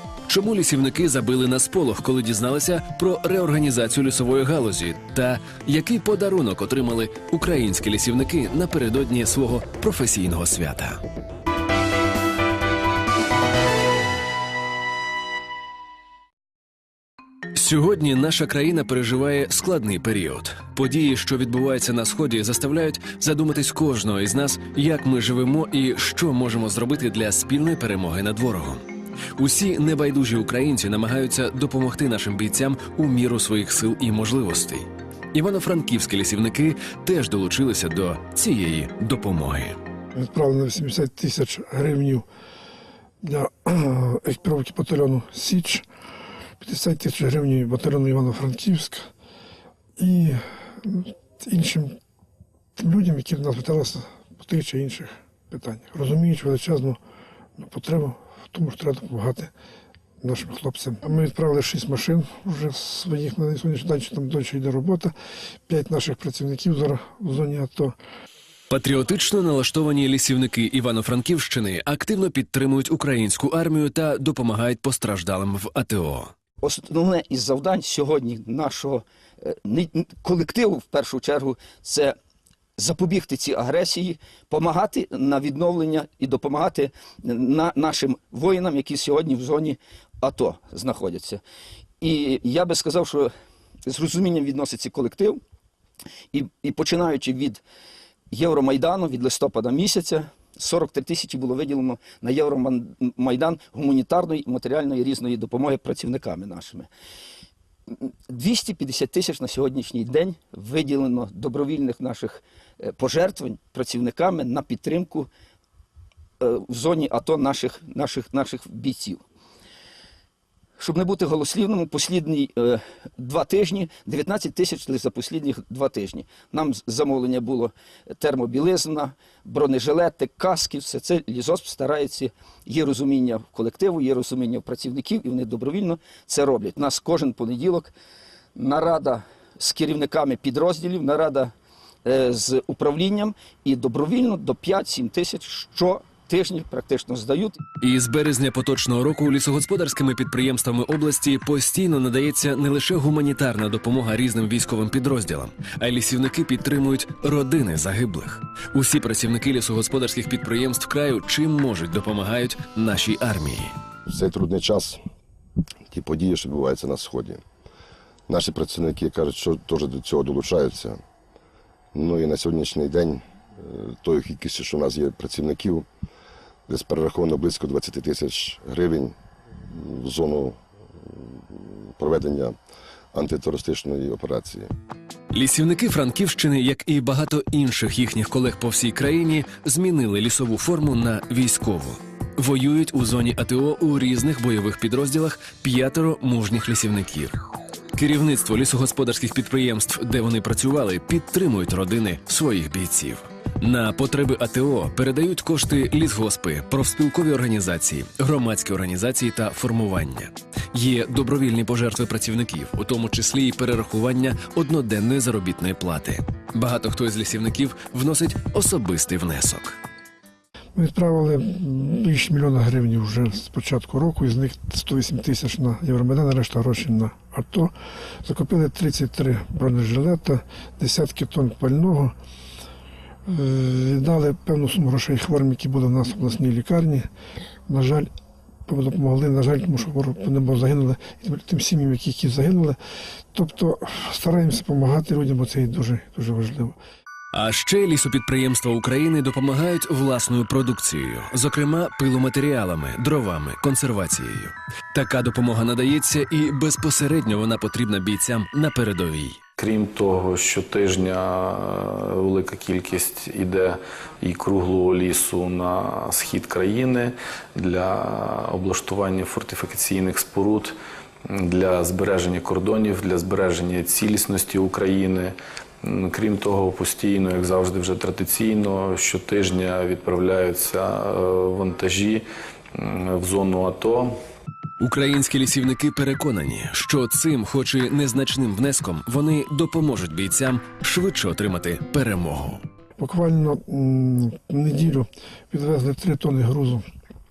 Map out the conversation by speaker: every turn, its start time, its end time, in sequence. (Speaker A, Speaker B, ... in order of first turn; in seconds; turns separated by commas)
Speaker A: 0.3-11.0, Speaker A: 17.6-28.8, Speaker A: 29.4-39.8, Speaker B: 40.1-42.2, Speaker B: 43.2-45.9, Speaker B: 46.6-49.1, Speaker B: 50.0-52.0, Speaker B: 52.8-57.0, Speaker B: 57.6-59.5, Speaker B: 60.2-65.1, Speaker B: 65.7-68.0, Speaker A: 68.7-76.3, Speaker C: 76.6-82.2, Speaker C: 82.8-91.4, Speaker C: 92.0-93.3, Speaker C: 93.9-95.4, Speaker C: 96.3-97.6, Speaker C: 98.3-106.9, Speaker C: 107.9-115.3, Speaker C: 116.4-119.2, Speaker C: 120.8-137.9, Speaker C: 138.6-141.5, Speaker C: 142.0-147.6, Speaker A: 147.8-163.7, Speaker D: 164.1-165.0, Speaker D: 165.9-167.4, Speaker D: 168.3-171.0, Speaker D: 171.9-175.9, Speaker D: 176.7-179.2, Speaker D: 179.7-180.6, Speaker D: 181.6-182.6, Speaker D: 183.1-184.7, Speaker A: 185.3-197.4, Speaker A: 197.9-219.8, Speaker B: 220.8-227.7, Speaker B: 228.2-232.1, Speaker B: 233.3-237.1, Speaker B: 237.7-238.1, Speaker B: 238.7-242.8, Speaker B: 243.3-246.8, Speaker A: 247.3-259.4, Speaker E: 259.6-284.1, Speaker A: 284.8-292.6, Speaker B: 293.0-296.8